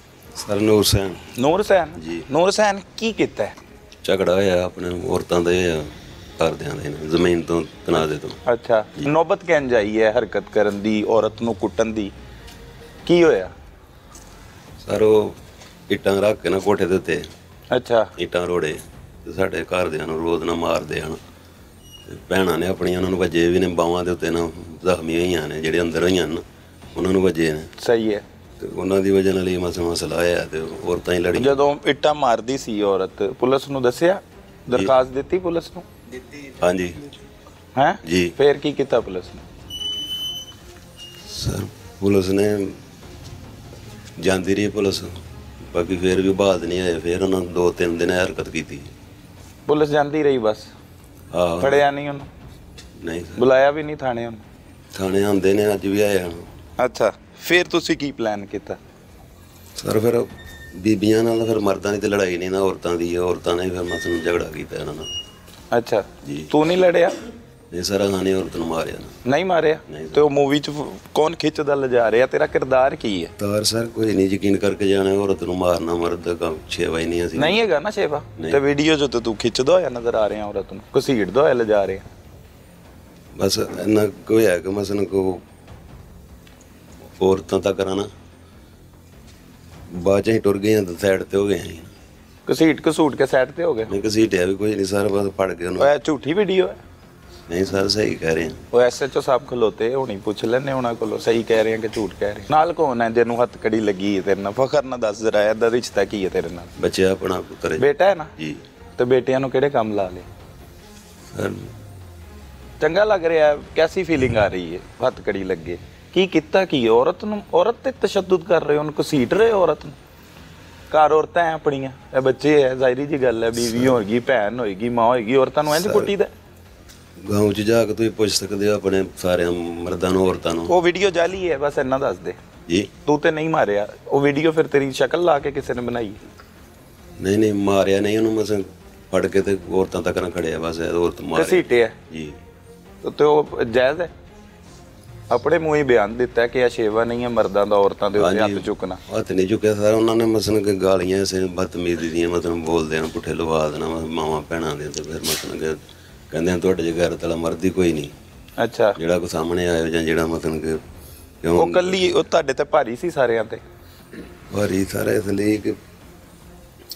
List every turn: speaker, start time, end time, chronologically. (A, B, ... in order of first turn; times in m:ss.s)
0:00.4-0:01.2 A
0:01.3-0:03.5 B
0:02.0-0:02.2 A
0:04.0-0:05.9 A
0:06.4-0:08.4 A
0:08.0-0:12.1 B
0:13.0-0:13.5 B
0:14.8-0:15.3 A
0:15.9-0:17.3 A
0:17.7-0:18.1 B
0:18.2-0:21.2 A
0:22.1-0:26.4 A
0:26.9-0:27.7 A
0:27.8-0:28.2 B
0:28.6-0:31.6 A
0:31.3-0:35.8 B
0:36.6-0:37.0 A
0:37.8-0:39.4 B
0:38.0-0:38.3 A
0:41.3-0:42.8 A
0:44.2-0:48.9 A
0:49.7-0:50.7 B
0:51.3-0:51.8 A
0:51.6-0:52.3 B
0:53.0-0:53.4 A
0:53.4-0:54.4 B
0:54.9-0:56.5 A
0:56.8-0:58.8 B
0:59.8-1:05.1 A
1:05.7-1:07.2 B
1:06.2-1:06.5 A
1:07.7-1:09.1 A
1:09.2-1:13.3 B
1:09.9-1:10.2 A
1:13.4-1:17.6 A
1:17.4-1:22.0 B
1:23.4-1:25.4 A
1:27.2-1:28.1 A
1:29.9-1:31.9 A
1:32.4-1:33.9 B
1:33.9-1:35.9 A
1:35.8-1:36.8 B
1:37.5-1:38.6 A
1:38.7-1:46.7 B
1:46.8-1:48.6 A
1:47.8-1:48.3 B
1:49.0-1:50.2 B
1:51.3-1:51.6 A
1:52.8-2:00.0 B
2:00.9-2:06.3 B
2:03.6-2:04.0 A
2:05.7-2:06.1 A
2:07.2-2:10.7 A
2:10.7-2:12.4 B
2:12.7-2:12.9 A
2:13.0-2:16.2 B
2:17.2-2:22.3 A
2:21.3-2:22.0 B
2:23.0-2:24.1 B
2:25.3-2:29.0 B
2:28.2-2:35.8 A
2:36.3-2:38.1 A
2:38.6-2:39.0 B
2:39.0-2:40.7 A
2:41.4-2:42.2 A
2:41.5-2:43.6 B
2:44.5-2:45.7 A